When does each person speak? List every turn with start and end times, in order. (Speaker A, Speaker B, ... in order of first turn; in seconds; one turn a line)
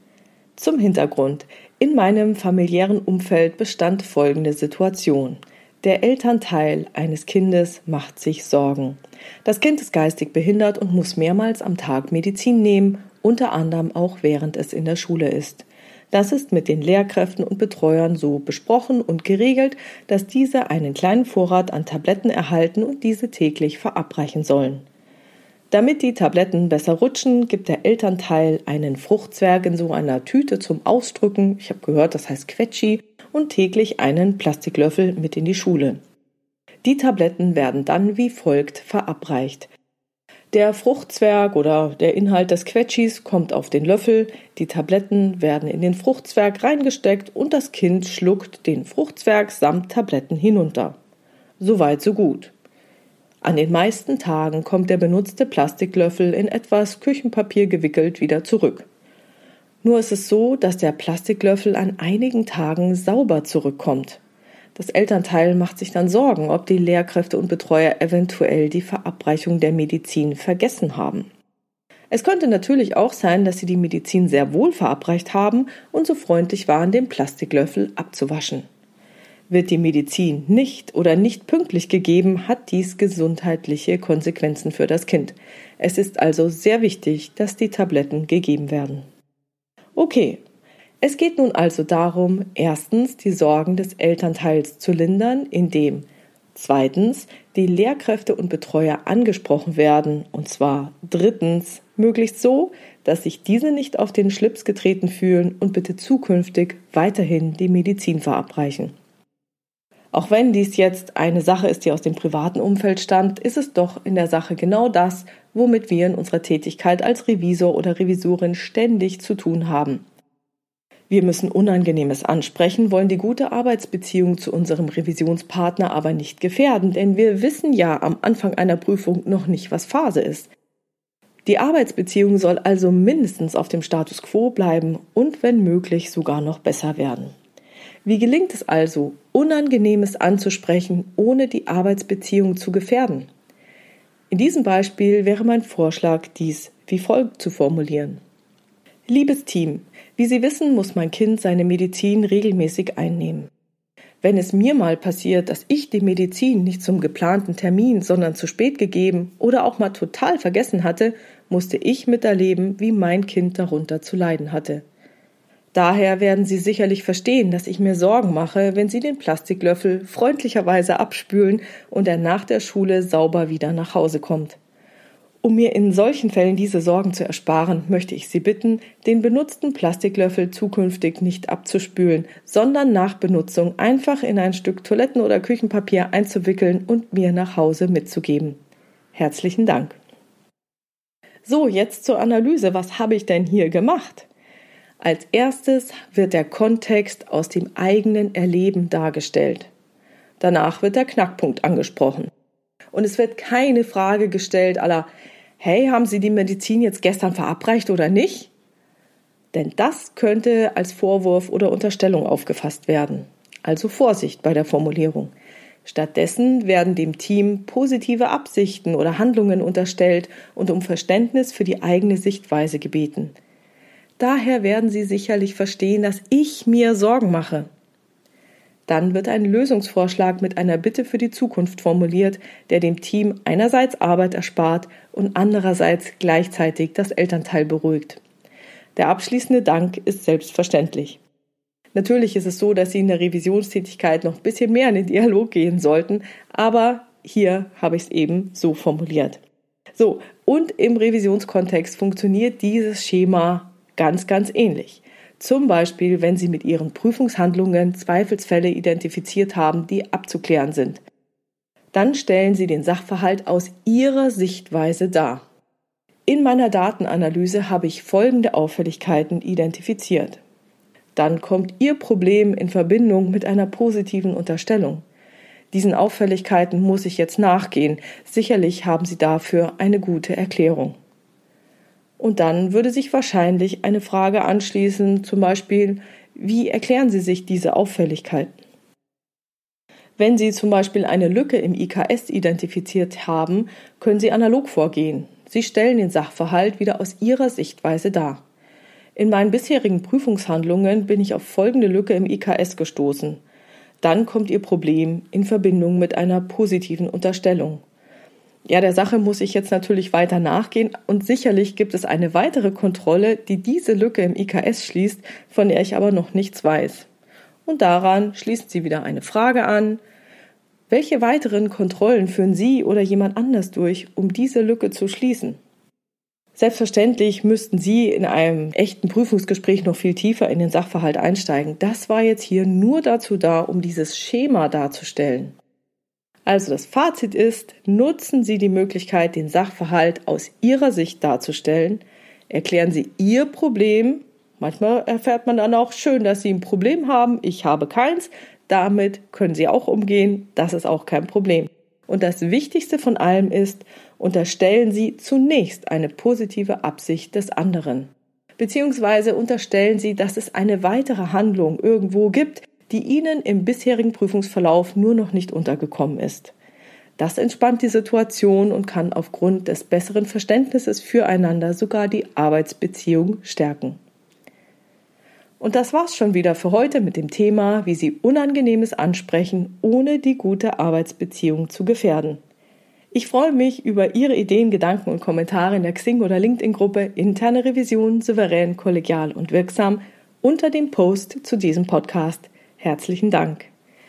Speaker A: 0.6-24.9
Speaker A: 25.7-36.0
Speaker A: 36.8-39.7
Speaker A: 40.5-51.0
Speaker A: 51.6-52.5
Speaker A: 53.4-58.9
Speaker A: 59.8-64.2
Speaker A: 64.8-71.3
Speaker A: 72.1-78.7
Speaker A: 79.5-89.0
Speaker A: 90.0-90.4
Speaker A: 91.0-108.9
Speaker A: 110.1-120.0
Speaker A: 121.1-130.5
Speaker A: 131.4-137.3
Speaker A: 138.1-143.3
Speaker A: 144.3-148.2
Speaker A: 149.1-153.5
Speaker A: 154.2-164.8
Speaker A: 165.7-174.6
Speaker A: 175.4-188.6
Speaker A: 189.1-190.0
Speaker A: 191.4-194.3
Speaker A: 195.0-199.7
Speaker A: 200.4-202.3
Speaker A: 202.9-208.5
Speaker A: 209.5-215.3
Speaker A: 215.8-223.3
Speaker A: 224.2-227.7
Speaker A: 228.9-238.2
Speaker A: 239.0-241.2
Speaker A: 241.9-249.4
Speaker A: 250.0-261.0
Speaker A: 261.9-265.4
Speaker A: 266.3-270.4
Speaker A: 271.1-275.0
Speaker A: 275.7-281.0
Speaker A: 282.2-288.5
Speaker A: 290.2-298.4
Speaker A: 299.2-303.4
Speaker A: 304.0-307.8
Speaker A: 308.7-317.1
Speaker A: 317.7-320.0
Speaker A: 320.9-325.6
Speaker A: 326.6-335.6
Speaker A: 336.5-366.5
Speaker A: 367.2-374.0
Speaker A: 375.6-382.4
Speaker A: 383.1-393.7